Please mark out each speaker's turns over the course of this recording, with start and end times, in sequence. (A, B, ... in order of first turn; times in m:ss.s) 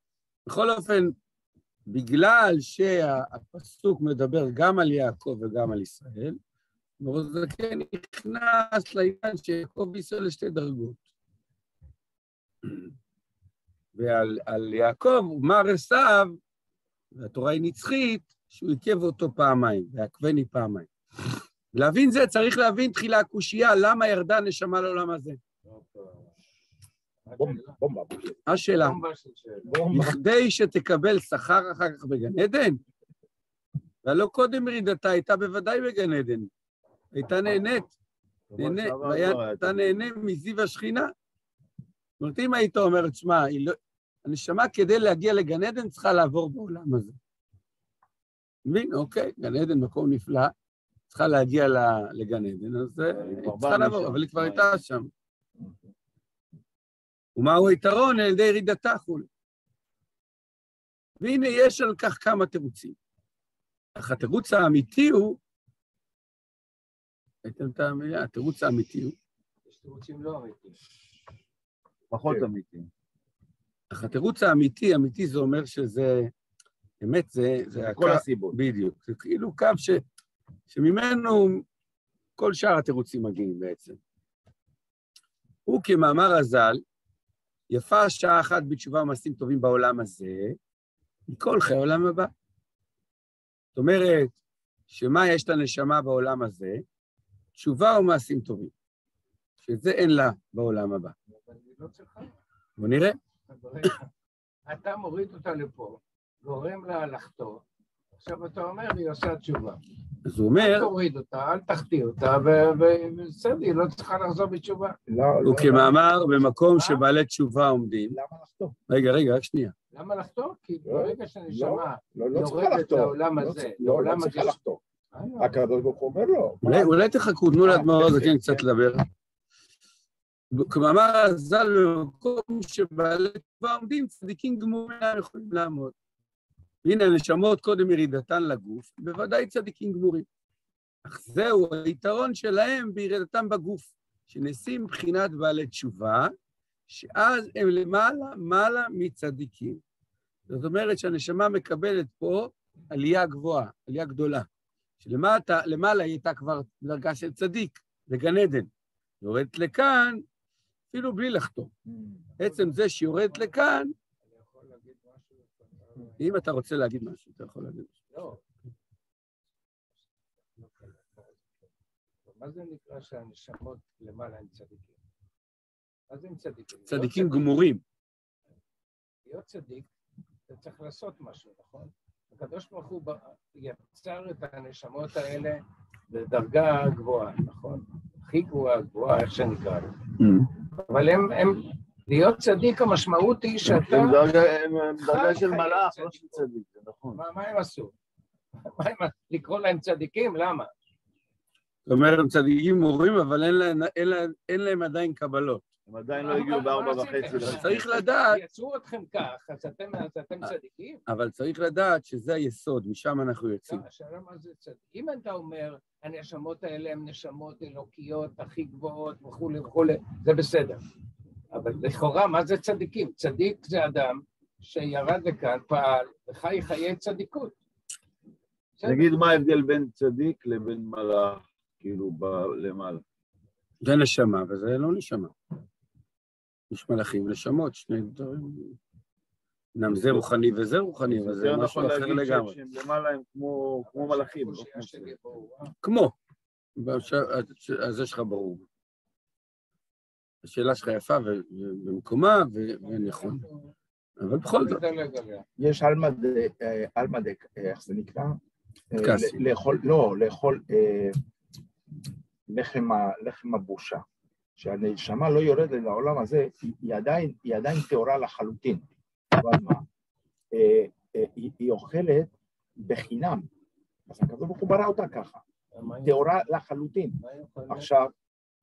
0:00.4-0:01.1 A
0:01.9-0:06.4 A
0:07.0-0:11.0 A
0:13.9-0:16.4 A
0:17.1-0:25.4 A
0:25.7-0:26.3 B
0:27.2-0:27.8 C
0:27.4-0:28.4 D
0:28.4-0:29.0 A
0:28.6-0:29.8 C
0:29.6-0:30.2 D
0:29.9-0:32.8 A
0:34.0-0:36.5 A
0:37.1-0:37.9 A
0:38.5-0:40.1 B
0:38.6-0:41.1 A
0:42.2-0:47.2 A
0:48.6-0:50.5 A
0:51.1-0:55.1 A
0:53.1-0:54.8 B
0:57.4-0:59.3 A
1:01.2-1:03.0 A
1:03.9-1:05.4 A
1:07.4-1:09.1 A
1:09.6-1:10.8 C
1:12.1-1:12.9 B
1:13.9-1:16.3 A
1:17.0-1:20.0 A
1:17.7-1:18.6 B
1:20.7-1:21.6 A
1:22.4-1:24.0 A
1:25.7-1:26.8 A
1:27.7-1:30.6 A
1:31.3-1:32.3 A
1:33.7-1:34.4 A
1:34.9-1:36.8 A
1:37.6-1:38.7 A
1:39.6-1:41.1 A
1:41.3-1:42.4 C
1:42.8-1:43.2 A
1:43.5-1:44.1 C
1:44.7-1:47.6 C
1:48.2-1:49.8 C
1:50.2-1:50.9 A
1:50.6-1:55.0 C
1:55.1-1:56.0 D
1:55.4-1:58.2 A
1:56.7-1:57.0 C
1:58.1-1:58.8 D
1:58.9-1:59.7 A
1:59.9-2:04.6 C
2:00.8-2:04.8 D
2:05.1-2:05.6 C
2:05.4-2:07.0 D
2:06.6-2:09.0 A
2:07.6-2:08.6 D
2:10.5-2:15.9 A
2:16.8-2:20.3 A
2:21.0-2:26.3 A
2:26.9-2:29.8 A
2:30.5-2:34.5 A
2:35.0-2:38.7 A
2:39.2-2:40.2 A
2:40.9-2:41.7 A
2:41.9-2:42.2 D
2:42.4-2:46.4 C
2:42.4-2:43.9 A
2:46.2-2:47.9 A
2:48.1-2:48.4 C
2:50.6-2:51.5 C
2:52.2-2:55.0 C
2:56.1-2:57.4 C
2:56.9-2:57.8 A
2:59.2-2:59.9 C
3:00.5-3:10.0 C
3:10.2-3:10.5 A
3:10.8-3:14.2 C
3:13.6-3:17.2 B
3:15.0-3:16.4 C
3:17.1-3:17.9 C
3:18.6-3:20.7 C
3:21.8-3:25.7 A
3:25.9-3:27.9 B
3:26.1-3:31.0 C
3:27.4-3:28.4 A
3:31.1-3:33.8 A
3:33.6-3:40.8 C
3:41.5-3:47.6 C
3:48.8-3:49.3 C
3:48.8-3:53.0 B
3:53.8-3:55.3 A
3:56.7-3:58.8 A
3:59.8-4:02.5 A
3:59.9-4:00.2 B
4:01.1-4:05.1 B
4:03.8-4:05.7 C
4:05.8-4:06.1 A
4:06.8-4:08.6 A
4:10.4-4:13.4 A
4:12.8-4:13.7 C
4:14.2-4:14.8 A
4:14.4-4:15.4 C
4:15.6-4:18.4 D
4:18.9-4:21.2 D
4:19.0-4:19.4 A
4:22.5-4:24.0 D
4:24.6-4:29.8 D
4:30.5-4:33.5 D
4:34.1-4:35.4 D
4:35.7-4:36.3 C
4:36.0-4:37.2 D
4:37.2-4:37.9 C
4:37.7-4:38.1 D